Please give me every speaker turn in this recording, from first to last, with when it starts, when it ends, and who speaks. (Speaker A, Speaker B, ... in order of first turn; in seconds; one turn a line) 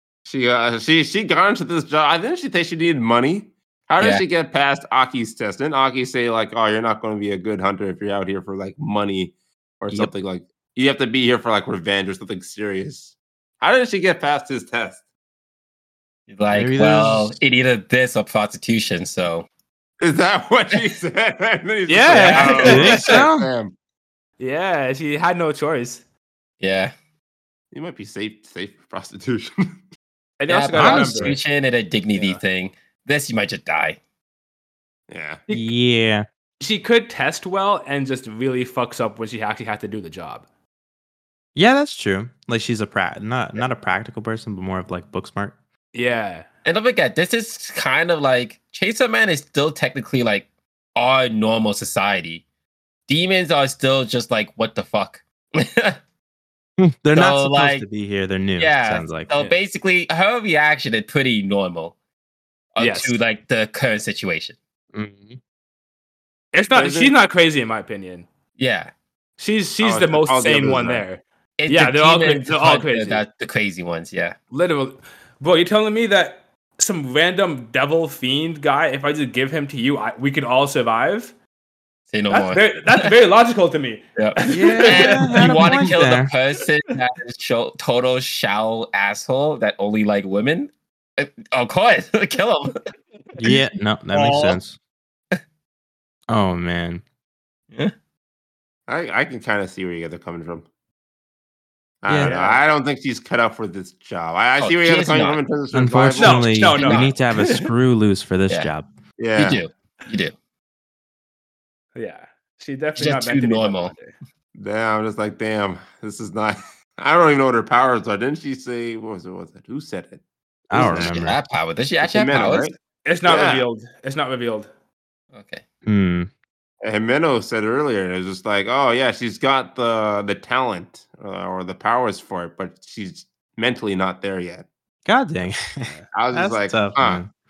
Speaker A: 0.2-15.0
Speaker B: 16.3-19.4
Speaker C: 16.5-17.4
Speaker A: 20.0-23.7
Speaker D: 21.9-23.2
Speaker B: 22.1-23.0
Speaker C: 22.6-23.5
Speaker D: 24.4-26.0
Speaker B: 26.6-26.9
Speaker A: 27.7-29.5
Speaker D: 30.4-31.4
Speaker B: 30.5-34.0
Speaker C: 30.8-31.4
Speaker A: 35.1-35.4
Speaker D: 35.5-35.7
Speaker C: 35.5-36.2
Speaker D: 36.6-40.4
Speaker C: 41.5-45.5
Speaker D: 45.9-46.5
Speaker B: 46.6-52.4
Speaker B: 53.1-56.0
Speaker C: 56.8-59.5
Speaker B: 57.1-57.8
Speaker B: 58.6-61.9
Speaker B: 62.7-64.5
Speaker D: 62.8-63.2
Speaker C: 64.9-65.4
Speaker D: 66.5-68.3
Speaker A: 66.7-67.1
Speaker B: 68.6-68.9
Speaker D: 69.4-73.2
Speaker A: 69.8-71.0
Speaker B: 71.6-74.3
Speaker D: 74.5-81.3
Speaker B: 82.1-83.1
Speaker D: 82.3-86.0
Speaker B: 84.2-92.8
Speaker C: 84.5-86.3
Speaker C: 93.4-94.8
Speaker B: 94.1-94.6
Speaker C: 96.3-97.0
Speaker A: 98.9-100.6
Speaker A: 102.0-107.0
Speaker C: 102.1-102.3
Speaker D: 102.2-102.6
Speaker B: 104.6-105.4
Speaker C: 105.7-108.9
Speaker D: 106.2-107.1
Speaker A: 109.2-109.6
Speaker B: 109.3-110.3
Speaker D: 112.0-114.1
Speaker B: 113.0-113.9
Speaker A: 114.5-121.2
Speaker C: 120.7-121.4
Speaker B: 120.8-122.7
Speaker A: 122.0-123.7
Speaker D: 123.0-124.7
Speaker B: 125.3-125.6
Speaker C: 125.8-126.3
Speaker A: 126.8-134.7
Speaker C: 135.0-137.3
Speaker A: 136.1-137.2